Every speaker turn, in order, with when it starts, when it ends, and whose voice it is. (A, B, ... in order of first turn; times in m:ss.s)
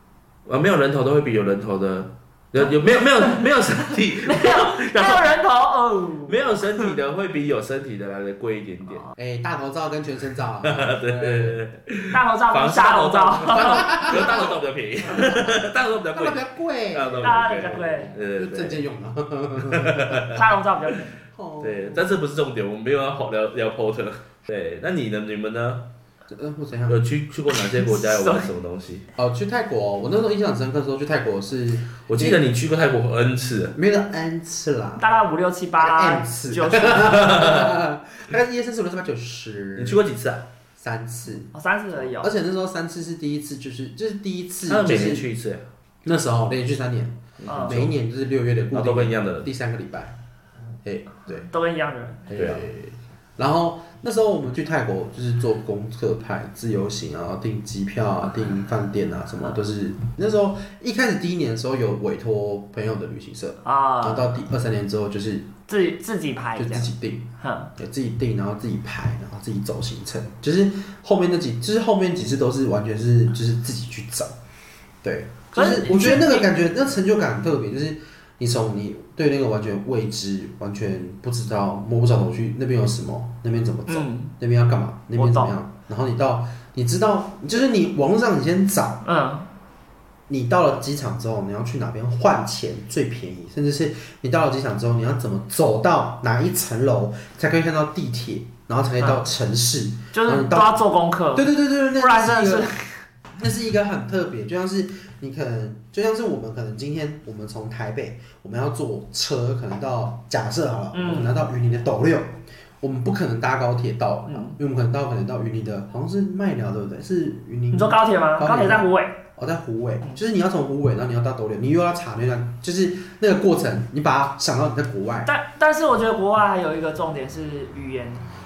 0:00.4-0:05.4 A
0:02.6-0:03.4 B
0:04.2-0:06.4 B
0:06.2-0:09.0 A
0:09.2-0:11.6 C
0:10.6-0:18.8 A
0:12.1-0:14.1 B
0:13.6-0:14.6 C
0:15.1-0:15.6 C
0:16.1-0:17.8 C
0:17.2-0:18.2 B
0:18.3-0:20.2 C
0:19.6-0:20.6 A
0:20.3-0:21.2 B
0:21.3-0:22.1 C
0:21.6-0:25.8 A
0:26.3-0:27.0 C
0:26.9-0:29.1 A
0:27.5-0:28.5 B
0:29.2-0:32.4 C
0:32.0-0:33.7 A
0:33.7-0:35.0 C
0:35.0-0:37.6 B
0:35.8-0:40.0 C
0:36.9-0:37.7 A
0:39.8-0:40.4 A
0:40.8-0:45.3 C
0:41.5-0:42.3 B
0:44.6-0:45.6 A
0:46.0-0:50.1 C
0:47.4-0:47.9 A
0:47.5-0:47.8 B
0:48.7-0:49.5 A
0:50.8-0:51.5 C
0:51.4-0:52.3 B
0:52.3-1:05.5 C
0:52.4-0:52.6 A
1:03.6-1:04.3 B
1:05.7-1:07.7 B
1:06.6-1:14.4 C
1:15.0-1:29.0 C
1:15.5-1:16.5 B
1:23.9-1:24.3 B
1:25.1-1:25.5 B
1:29.0-1:29.5 B
1:30.3-1:40.8 C
1:40.1-1:43.0 B
1:41.3-1:42.7 C
1:43.3-2:05.3 C
1:50.9-1:51.4 B
1:54.3-1:54.6 B
1:57.7-1:59.2 B
2:05.2-2:08.2 B